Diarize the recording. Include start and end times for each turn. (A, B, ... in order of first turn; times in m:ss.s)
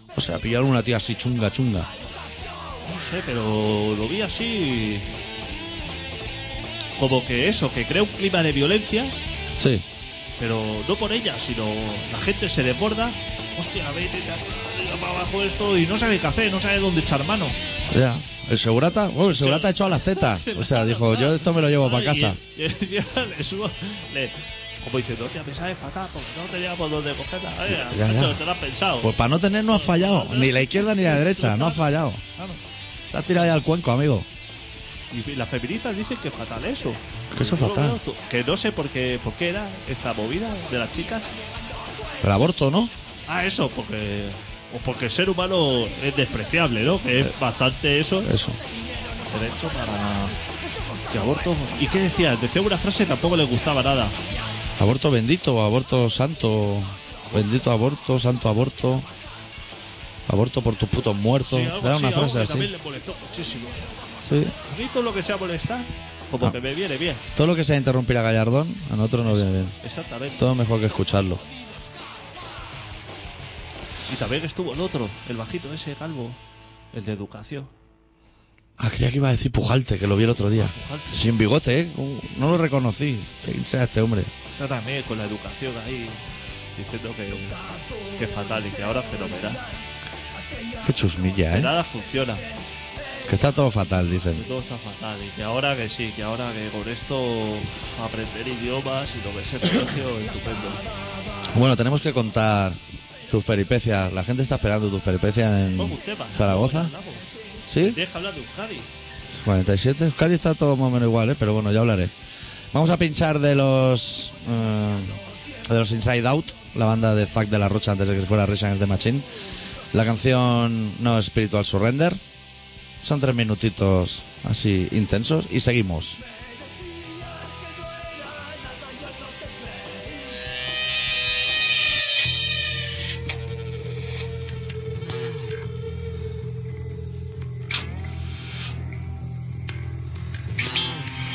0:00.1-0:01.9 A
0:02.8-0:05.2 B
0:07.0-0:09.1 B
0:09.6-0:09.8 A
0:10.4-0:17.6 B
0:17.9-0:22.4 A
0:19.3-0:29.1 B
0:27.7-0:28.4 A
0:29.0-0:32.2 A
0:29.7-0:32.6 B
0:33.1-0:34.3 A
0:35.1-0:41.3 B
0:37.3-0:38.0 A
0:42.2-0:42.9 A
0:43.3-0:48.3 B
0:48.2-0:48.6 A
0:49.3-0:50.4 B
0:51.1-0:54.2 B
0:54.8-0:59.1 A
1:00.3-1:02.7 A
1:01.4-1:04.0 B
1:04.2-1:04.5 A
1:04.6-1:07.2 B
1:07.3-1:09.7 A
1:09.2-1:10.5 B
1:10.4-1:11.4 A
1:14.1-1:16.4 B
1:16.9-1:17.7 B
1:18.8-1:24.3 A
1:20.5-1:21.3 B
1:24.6-1:27.6 B
1:28.1-1:29.6 B
1:30.8-1:31.7 A
1:31.5-1:32.4 B
1:33.2-1:34.4 A
1:34.3-1:40.8 B
1:41.5-1:46.9 A
1:45.7-1:47.2 B
1:47.7-1:48.0 A
1:47.8-1:48.9 B
1:49.3-1:52.1 A
1:52.7-1:59.3 A
1:59.9-2:02.2 A
2:03.0-2:06.2 A